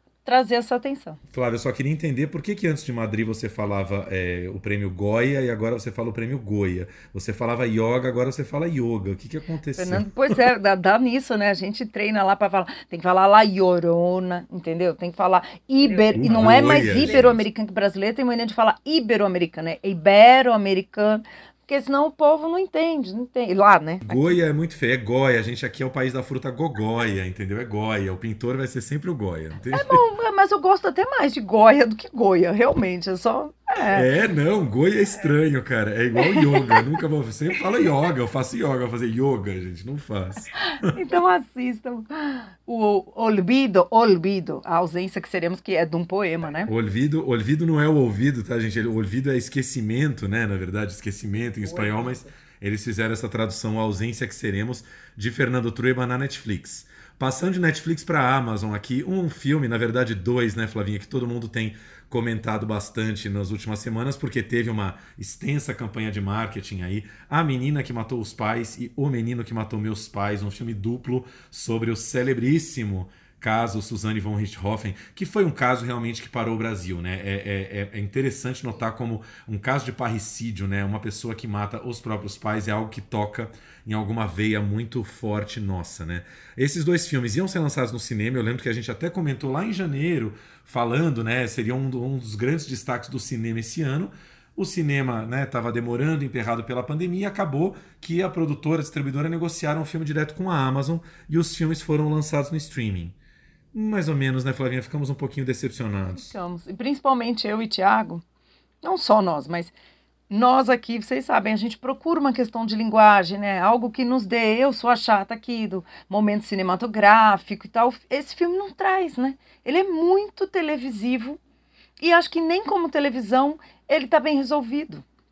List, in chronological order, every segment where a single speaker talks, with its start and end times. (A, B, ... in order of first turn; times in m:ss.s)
0:00.2-0:01.2 A
0:01.3-0:10.4 B
0:09.8-0:24.3 A
0:16.1-0:17.4 B
0:24.0-0:30.0 B
0:29.7-0:34.1 A
0:33.9-0:40.9 B
0:36.3-0:36.8 A
0:40.8-0:46.7 A
0:46.7-1:43.2 B
0:51.6-0:52.3 A
1:43.7-1:46.3 B
1:46.1-1:48.2 A
1:48.8-1:49.7 A
1:50.3-2:01.4 A
2:02.0-2:05.0 A